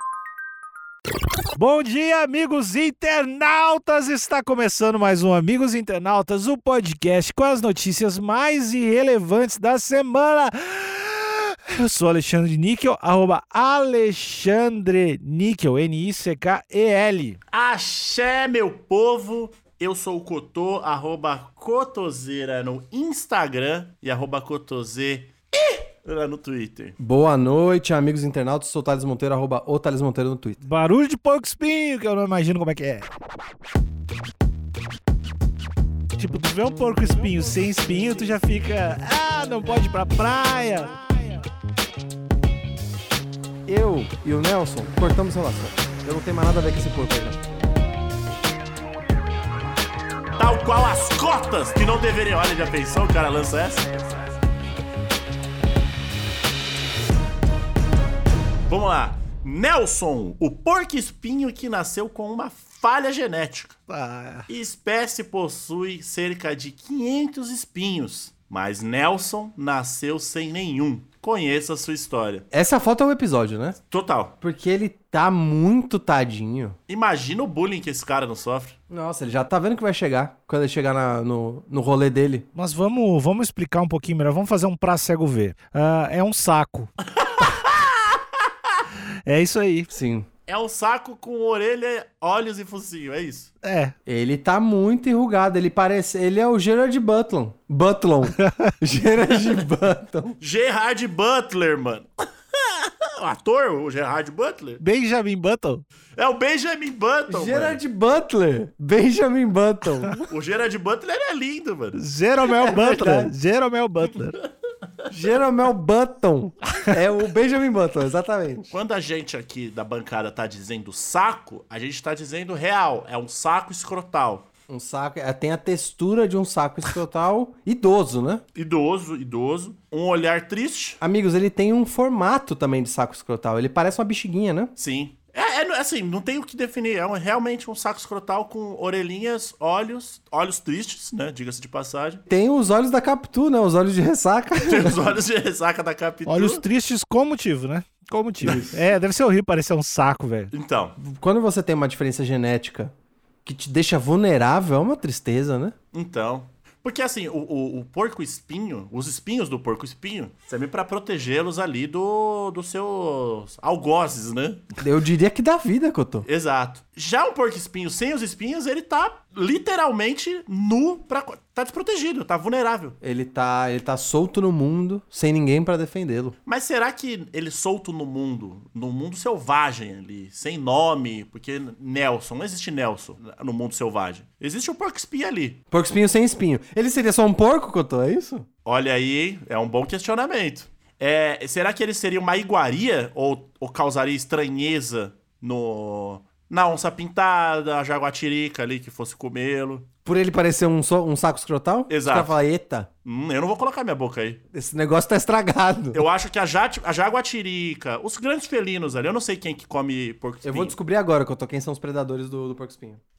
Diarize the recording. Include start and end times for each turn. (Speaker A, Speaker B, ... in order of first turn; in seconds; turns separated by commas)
Speaker A: 1.6-17.4, Speaker B: 17.5-27.0, Speaker C: 27.0-30.6, Speaker A: 30.6-33.1, Speaker A: 36.2-41.4, Speaker C: 43.7-47.4, Speaker B: 50.4-54.2, Speaker B: 58.7-63.8, Speaker A: 63.9-64.5, Speaker B: 64.5-72.5, Speaker C: 72.5-73.8, Speaker B: 73.9-74.3, Speaker C: 74.4-76.8, Speaker B: 76.9-78.8, Speaker C: 78.9-82.5, Speaker A: 82.5-86.9, Speaker B: 87.2-87.9, Speaker A: 89.3-89.9, Speaker C: 89.9-90.3, Speaker B: 90.5-93.5, Speaker A: 93.6-93.9, Speaker C: 94.1-100.4, Speaker A: 98.4-98.8, Speaker B: 100.4-104.8, Speaker A: 104.8-105.8, Speaker B: 106.2-107.8, Speaker C: 107.3-110.3, Speaker B: 110.3-112.0, Speaker A: 112.0-114.4, Speaker C: 112.5-113.3, Speaker C: 115.1-118.7, Speaker B: 118.7-124.5, Speaker C: 124.7-128.4, Speaker B: 128.6-131.0, Speaker C: 131.0-134.7, Speaker B: 134.8-142.2, Speaker C: 142.3-145.1, Speaker B: 144.6-146.6, Speaker A: 146.3-150.5, Speaker C: 148.5-148.7, Speaker B: 150.5-151.0, Speaker C: 151.0-152.9, Speaker C: 153.4-155.8, Speaker B: 155.9-164.7, Speaker C: 164.8-166.3, Speaker B: 166.2-173.0, Speaker C: 173.0-176.3, Speaker B: 176.5-185.6, Speaker C: 185.7-188.5, Speaker B: 188.7-199.9, Speaker C: 200.1-202.9, Speaker B: 201.9-202.3, Speaker B: 203.1-204.4, Speaker C: 204.5-206.1, Speaker B: 205.9-210.7, Speaker C: 210.4-213.0